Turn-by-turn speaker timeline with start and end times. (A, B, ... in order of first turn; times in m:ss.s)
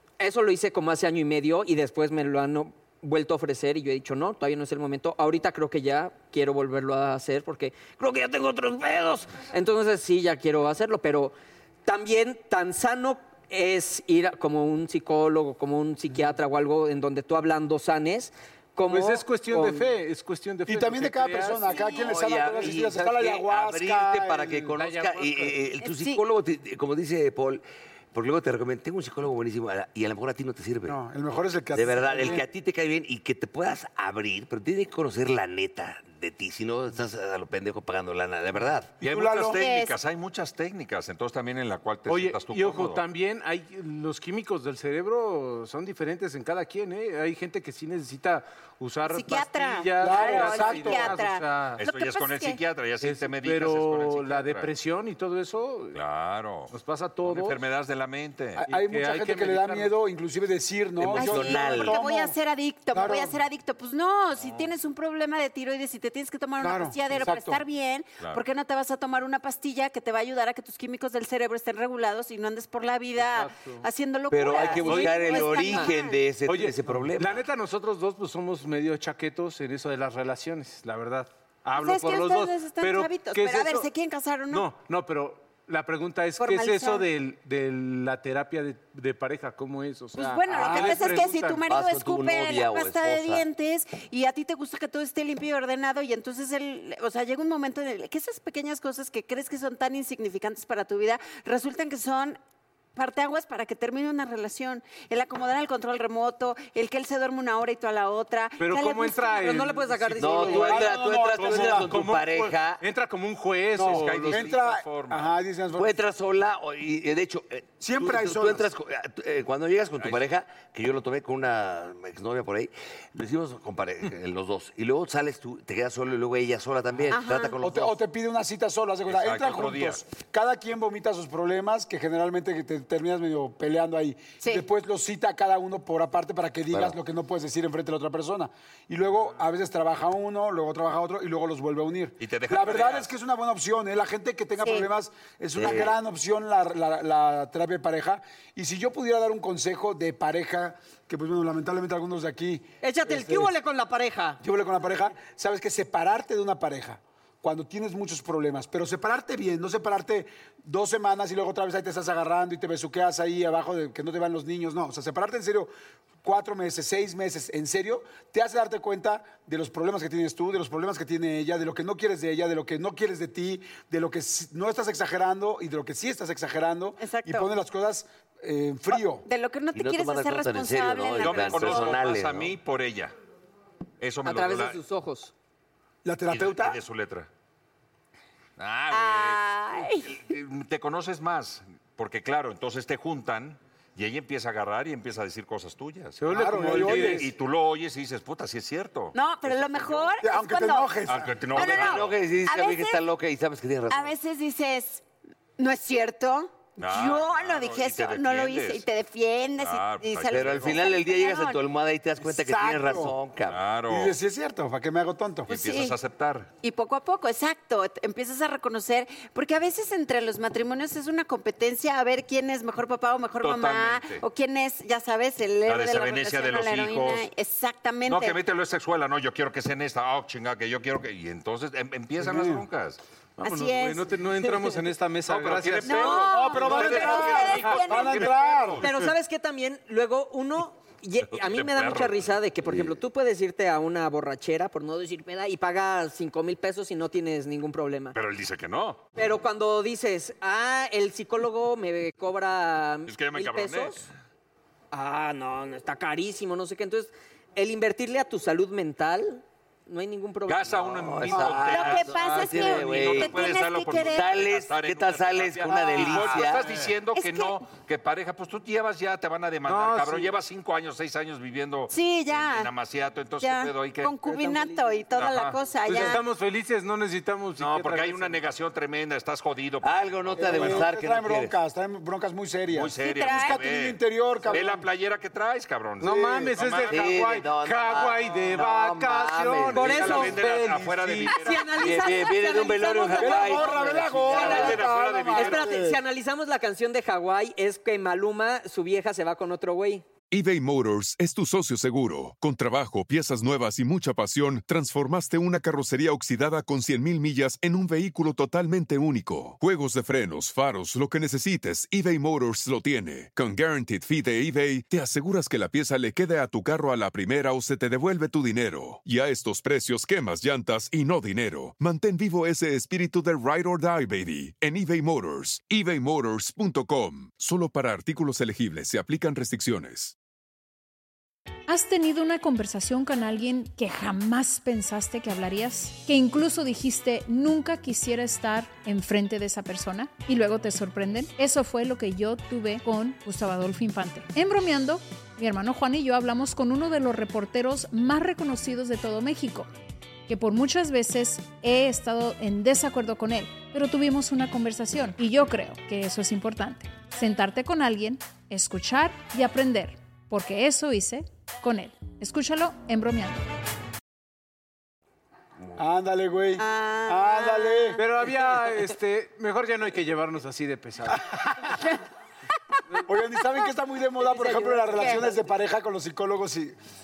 0:00.2-0:19.8 A
0:18.9-0:21.7 B
0:20.7-0:24.7 C
0:21.6-0:22.1 D
0:21.9-0:31.0 E
0:24.8-0:25.6 B
0:25.8-0:26.2 D
0:30.9-0:32.4 C
0:31.7-0:39.0 E
0:39.0-0:39.6 C
0:39.0-0:43.0 F
0:39.5-0:39.9 D
0:42.1-0:51.8 B
0:49.1-0:52.6 D
0:50.0-0:51.2 C
0:51.8-0:54.7 F
0:53.0-0:56.0 B
0:55.9-0:56.7 F
0:56.7-0:57.6 B
0:57.2-0:58.6 F
0:58.6-1:02.4 C
0:58.7-0:59.9 B
1:01.0-1:02.0 E
1:01.1-1:16.2 D
1:02.9-1:03.4 C
1:06.6-1:07.6 C
1:13.2-1:13.8 B
1:14.3-1:17.4 E
1:14.8-1:15.4 B
1:15.2-1:15.8 A
1:16.4-1:23.9 B
1:21.7-1:24.7 D
1:24.5-1:31.6 B
1:26.4-1:27.1 D
1:30.2-1:42.4 D
1:30.6-1:30.9 C
1:30.7-1:33.4 E
1:42.9-1:49.6 D
1:48.6-1:54.4 B
1:49.3-1:50.9 A
1:50.2-1:52.8 E
1:50.5-1:51.9 C
1:53.7-1:56.0 C
1:53.8-1:55.3 F
1:55.8-2:08.0 E
1:57.8-1:58.7 C
2:07.1-2:07.5 D
2:07.6-2:33.5 C
2:09.1-2:10.0 F
2:16.7-2:17.0 E
2:22.2-2:23.1 F
2:24.6-2:24.9 D
2:25.5-2:25.9 E
2:32.8-2:34.4 A
2:34.4-2:45.7 C
2:46.2-2:59.2 C
2:57.0-2:57.5 D
2:59.2-3:02.0 D
2:59.7-3:02.5 E
3:01.2-3:03.1 F
3:04.0-3:04.8 F
3:04.2-3:05.3 A
3:06.0-3:06.8 C
3:06.3-3:07.3 F
3:08.6-3:20.1 F
3:08.9-3:10.2 D
3:16.2-3:17.3 B
3:16.3-3:17.3 C
3:19.1-3:21.0 D
3:20.2-3:21.4 C
3:21.1-3:22.2 F
3:21.5-3:23.0 D
3:21.5-3:24.1 E
3:23.9-3:25.0 D
3:25.6-3:31.6 D
3:26.8-3:28.8 F
3:29.6-3:30.8 F
3:30.3-3:33.6 E
3:32.2-3:33.1 C
3:33.5-3:34.2 F
3:33.9-3:35.5 C
3:35.5-3:35.9 D
3:35.5-3:36.5 F
3:36.6-3:48.4 D
3:43.4-3:44.2 F
3:45.6-3:47.3 F
3:48.0-3:53.0 F
3:52.2-3:52.6 C
3:53.4-3:57.8 B
3:53.4-3:54.8 D
3:55.3-3:58.9 F
3:55.8-3:58.3 D
3:56.3-3:58.9 C
3:58.8-4:08.1 A
4:01.3-4:02.3 F
4:02.7-4:02.9 E
4:08.1-4:09.0 F
4:09.2-4:14.0 A
4:13.1-4:14.1 F
4:14.9-4:20.8 A
4:20.5-4:34.1 F
4:20.7-4:26.7 E
4:21.7-4:24.3 D
4:25.7-4:26.4 C
4:27.1-4:27.6 D
4:29.7-4:30.3 B
4:31.9-4:32.7 D
4:33.4-4:36.2 D
4:34.2-4:35.0 A
4:35.2-4:35.6 F
4:35.8-4:38.4 B
4:37.6-4:40.9 F
4:39.8-4:41.5 E
4:40.4-4:44.8 C
4:42.7-4:47.1 F
4:43.0-4:43.6 D
4:46.0-4:51.6 B
4:46.0-4:46.6 C
4:46.8-4:50.4 E
4:49.7-4:50.4 A
4:49.8-4:51.8 F
4:51.4-5:00.0 A
4:51.7-4:54.8 E
4:53.2-4:56.0 C
4:54.3-4:55.8 F
5:00.3-5:30.1 G
5:31.7-5:49.7 H
5:50.3-6:03.4 H
6:05.8-6:08.0 C
6:06.6-6:08.0 D
6:08.0-6:11.6 B
6:13.0-6:16.8 C
6:14.2-6:15.3 A
6:15.0-6:15.3 D